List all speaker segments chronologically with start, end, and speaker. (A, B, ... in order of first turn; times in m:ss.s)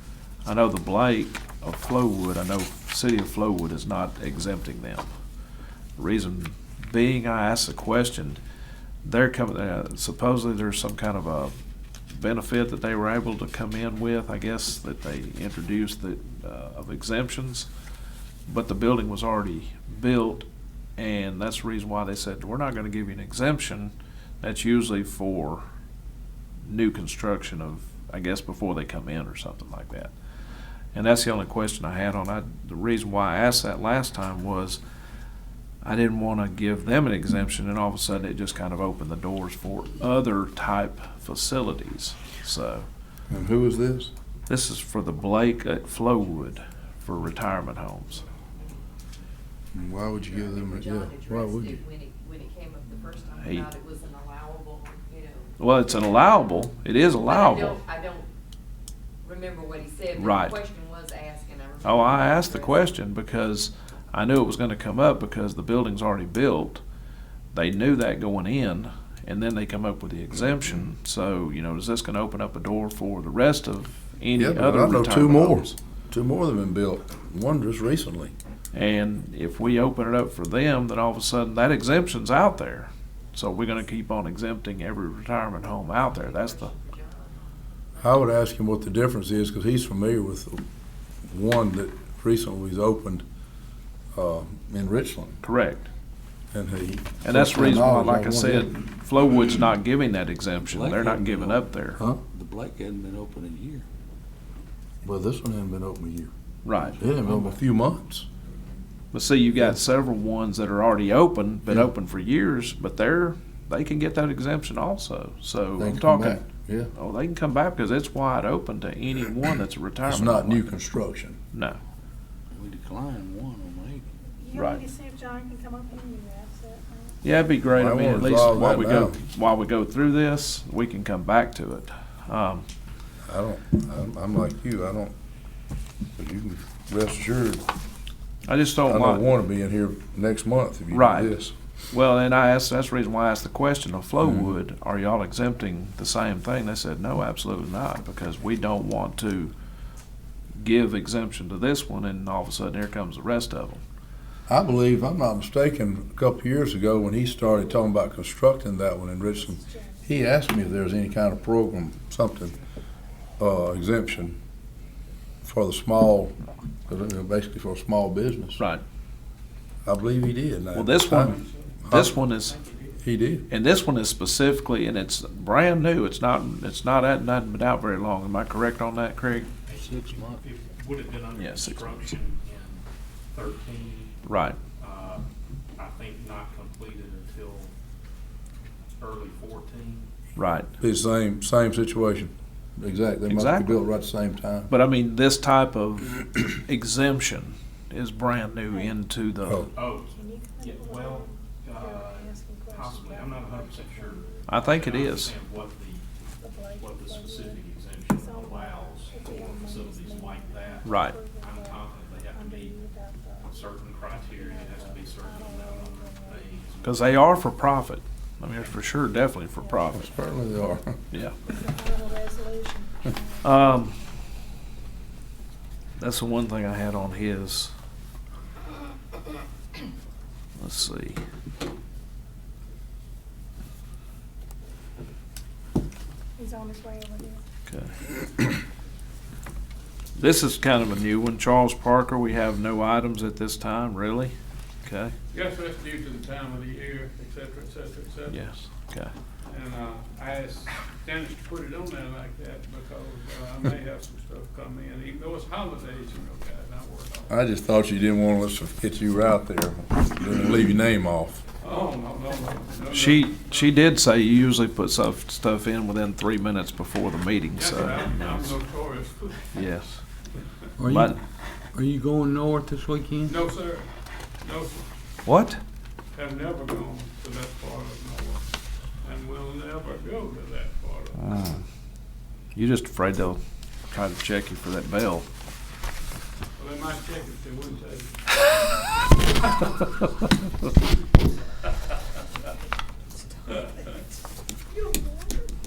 0:00.4-0:05.1 A
0:06.0-0:08.4 A
0:09.0-0:11.5 A
0:12.1-0:17.7 A
0:18.5-0:25.6 A
0:26.7-0:30.1 A
0:30.9-0:34.8 A
0:35.8-0:42.9 A
0:43.3-0:44.1 B
0:44.5-0:48.2 A
0:49.7-0:51.8 B
0:50.2-0:56.4 C
0:53.4-0:53.7 A
0:55.6-0:57.8 A
0:57.2-0:58.3 C
0:59.2-1:02.9 C
1:00.1-1:00.6 A
1:01.8-1:06.8 A
1:07.5-1:15.7 A
1:14.4-1:18.3 B
1:18.7-1:26.7 A
1:26.1-1:28.1 C
1:28.0-1:30.6 B
1:31.2-1:33.2 B
1:34.1-1:35.4 B
1:35.4-1:35.9 A
1:36.5-1:38.7 B
1:37.2-1:42.0 A
1:40.6-1:41.6 D
1:42.0-1:42.2 B
1:42.3-1:43.8 D
1:45.0-1:46.3 B
1:46.6-1:47.0 A
1:47.0-1:48.3 B
1:47.1-1:47.5 D
1:49.1-1:56.4 A
1:55.8-1:56.9 B
1:56.9-2:00.6 A
2:00.1-2:01.4 B
2:01.5-2:01.8 A
2:02.5-2:04.0 D
2:04.4-2:07.2 E
2:04.5-2:04.8 A
2:07.2-2:12.6 A
2:07.7-2:09.2 B
2:13.2-2:15.1 B
2:16.2-2:17.7 B
2:18.5-2:19.3 A
2:18.8-2:21.5 B
2:20.9-2:21.4 A
2:21.9-2:29.5 A
2:24.2-2:24.5 B
2:30.6-2:33.8 A
2:34.5-2:42.6 B
2:37.4-2:37.9 E
2:39.3-2:41.2 E
2:43.4-2:44.4 B
2:45.4-2:46.4 B
2:46.9-2:48.6 B
2:49.8-2:52.1 B
2:50.7-2:52.6 A
2:51.4-2:51.8 F
2:52.4-2:53.0 F
2:53.0-2:53.4 B
2:53.5-2:59.5 A
2:59.7-3:02.0 D
2:59.7-3:02.8 G
2:59.9-3:00.3 B
3:01.3-3:02.0 A
3:03.3-3:04.1 G
3:04.2-3:04.6 A
3:04.8-3:05.2 G
3:05.8-3:07.7 G
3:06.2-3:06.5 D
3:09.1-3:09.7 D
3:09.7-3:10.0 G
3:10.4-3:10.7 A
3:10.8-3:14.7 B
3:13.3-3:13.8 A
3:14.7-3:19.6 A
3:18.7-3:19.0 E
3:19.4-3:19.7 B
3:19.8-3:20.1 D
3:20.1-3:24.6 E
3:20.6-3:21.2 G
3:20.8-3:26.0 D
3:21.8-3:22.2 G
3:22.7-3:25.8 G
3:24.5-3:25.3 A
3:26.4-3:27.6 E
3:26.8-3:30.9 D
3:27.1-3:30.6 G
3:28.1-3:36.5 E
3:30.8-3:31.2 A
3:31.4-3:32.7 G
3:31.6-3:32.4 D
3:33.5-3:37.0 G
3:33.6-3:37.4 D
3:36.8-3:40.1 A
3:39.6-3:39.9 E
3:39.9-3:41.0 B
3:41.1-3:41.4 A
3:41.4-3:44.0 E
3:43.4-3:44.0 A
3:46.0-3:47.7 A
3:50.6-3:51.2 A
3:56.4-3:57.4 E
3:57.7-3:58.0 A
4:00.2-4:05.1 A
4:05.3-4:08.4 F
4:08.3-4:09.1 A
4:09.5-4:17.3 F
4:17.3-4:21.4 B
4:21.6-4:23.7 F
4:22.9-4:28.6 A
4:27.5-4:29.6 F
4:29.5-4:30.0 A
4:30.8-4:31.1 H
4:30.8-4:31.2 A
4:31.7-4:33.3 H
4:33.3-4:33.9 F
4:34.4-4:34.9 F
4:35.2-4:35.6 A
4:36.1-4:38.4 F
4:39.0-4:41.6 F
4:41.2-4:41.6 A
4:42.5-4:45.2 A
4:46.6-4:48.1 F
4:53.4-4:54.0 E
4:54.7-4:55.5 E